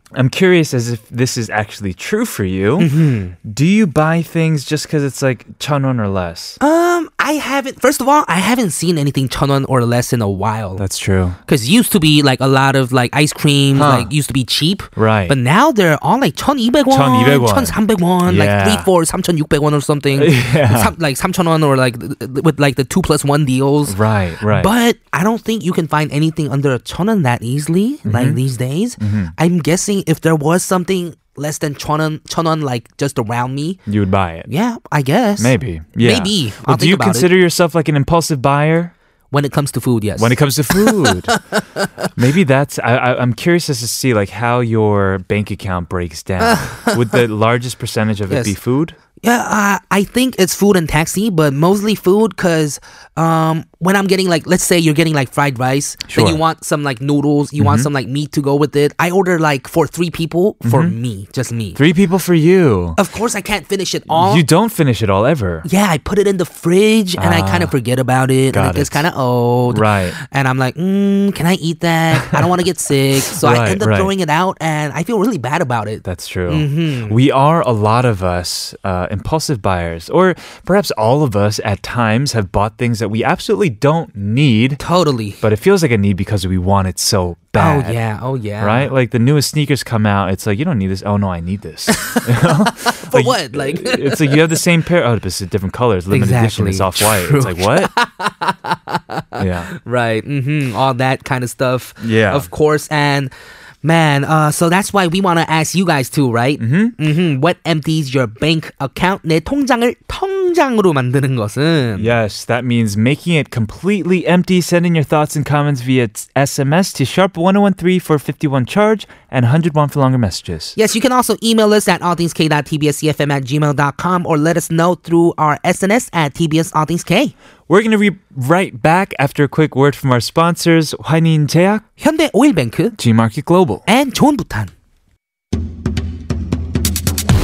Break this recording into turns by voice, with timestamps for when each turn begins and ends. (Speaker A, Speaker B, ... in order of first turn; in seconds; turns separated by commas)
Speaker A: 0.2-2.9, Speaker B: 2.8-3.3, Speaker A: 3.4-6.6, Speaker B: 6.6-10.8, Speaker A: 10.8-11.4, Speaker B: 11.5-33.8, Speaker A: 13.7-14.1, Speaker A: 15.0-15.4, Speaker A: 16.9-17.8, Speaker A: 18.2-18.9, Speaker A: 20.2-20.9, Speaker A: 23.9-24.7, Speaker A: 28.1-28.4, Speaker A: 29.0-29.3, Speaker A: 33.9-34.5, Speaker B: 34.5-37.3, Speaker A: 35.4-38.9, Speaker B: 39.3-42.1, Speaker A: 40.2-41.4, Speaker A: 42.1-49.0, Speaker B: 46.4-47.0, Speaker B: 48.3-48.5, Speaker B: 49.2-61.8, Speaker A: 56.1-56.4, Speaker A: 57.6-57.9, Speaker A: 60.6-61.0, Speaker A: 61.7-63.0, Speaker B: 63.0-64.5, Speaker A: 64.1-65.7, Speaker B: 65.6-77.2, Speaker A: 67.2-67.7, Speaker A: 68.5-69.0, Speaker A: 69.7-70.2, Speaker A: 73.3-74.1, Speaker A: 76.0-84.8, Speaker B: 84.8-85.4, Speaker A: 85.4-88.0, Speaker B: 87.5-88.9, Speaker A: 88.6-97.9, Speaker B: 92.8-94.5, Speaker B: 96.1-103.3, Speaker A: 99.4-99.7, Speaker A: 102.0-102.5, Speaker B: 103.8-112.1, Speaker A: 106.6-107.0, Speaker A: 112.0-120.8, Speaker B: 120.7-127.3, Speaker A: 127.7-131.8, Speaker B: 132.0-133.0, Speaker A: 133.0-133.8, Speaker B: 133.9-134.7